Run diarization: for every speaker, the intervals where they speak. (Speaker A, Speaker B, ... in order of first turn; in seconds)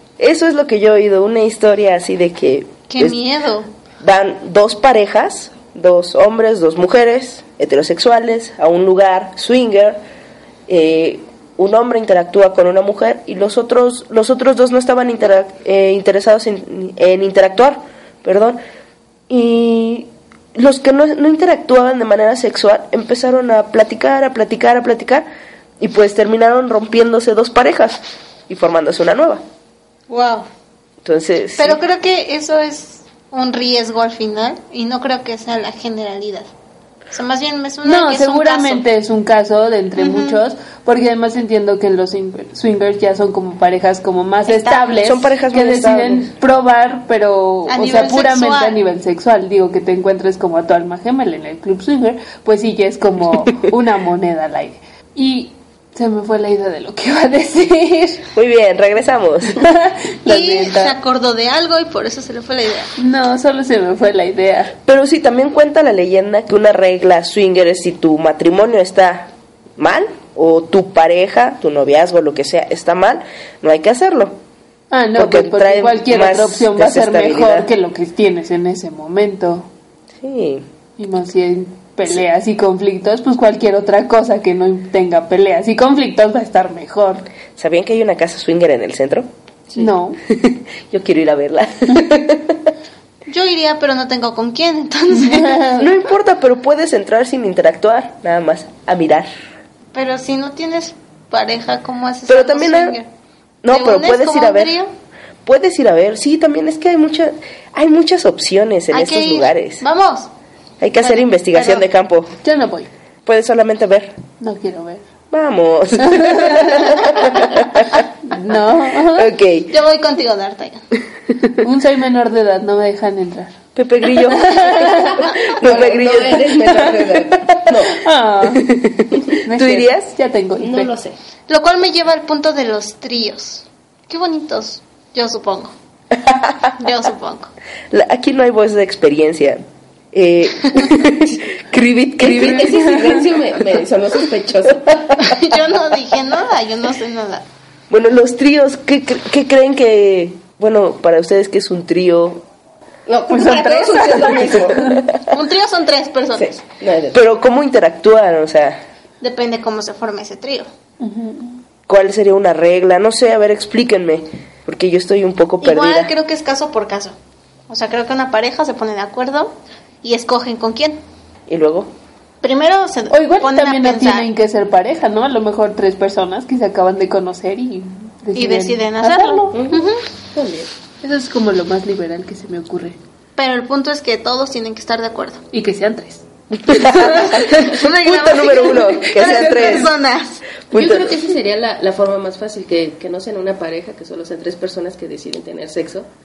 Speaker A: 0.2-3.2, 4.0-10.0, 10.7-18.6, 19.3-25.3, 25.8-29.4, 31.0-31.8, 44.9-46.3, 58.3-59.7, 64.8-74.4, 75.1-77.7, 80.2-80.7, 87.6-89.3, 89.8-92.7, 95.7-99.3, 102.3-103.0, 103.6-104.7, 105.4-109.8, 110.8-112.3, 113.2-114.2, 115.3-118.0, 119.0-119.7, 123.8-130.1, 136.2-136.5, 137.9-143.0, 147.9-152.4, 154.3-155.2, 157.1-158.8, 161.9-166.1, 171.5-171.9, 186.5-189.9, 190.7-191.2
Speaker B: 2.9-3.7, 30.1-30.5, 31.6-36.5, 37.1-38.8, 40.0-40.4, 44.5-44.9, 47.7-48.8, 60.2-62.9, 93.3-95.6, 99.9-103.1, 103.7-104.9, 108.9-110.3, 111.0-111.9, 119.7-120.8, 131.5-135.7, 136.8-137.5, 145.2-147.4, 155.3-156.6, 159.2-160.7, 165.6-167.2, 167.7-171.0, 172.4-174.3, 178.3-180.0, 183.4-185.4, 187.0-190.4
Speaker C: 37.8-58.2, 59.5-60.9, 63.0-64.7, 74.9-79.7, 81.0-87.2, 89.8-90.2, 95.2-95.8, 112.4-112.9, 114.4-115.0, 116.0-117.2, 118.2-119.3, 121.6-123.6, 124.1-125.2, 127.9-128.8, 129.4-130.9, 142.8-143.2, 153.3-155.0, 161.0-161.6, 173.1-179.6, 181.0-183.0, 185.5-186.2
Speaker D: 125.0-127.5, 130.6-131.2, 142.2-145.2, 153.1-154.9, 156.4-157.2, 179.5-180.7, 190.7-196.1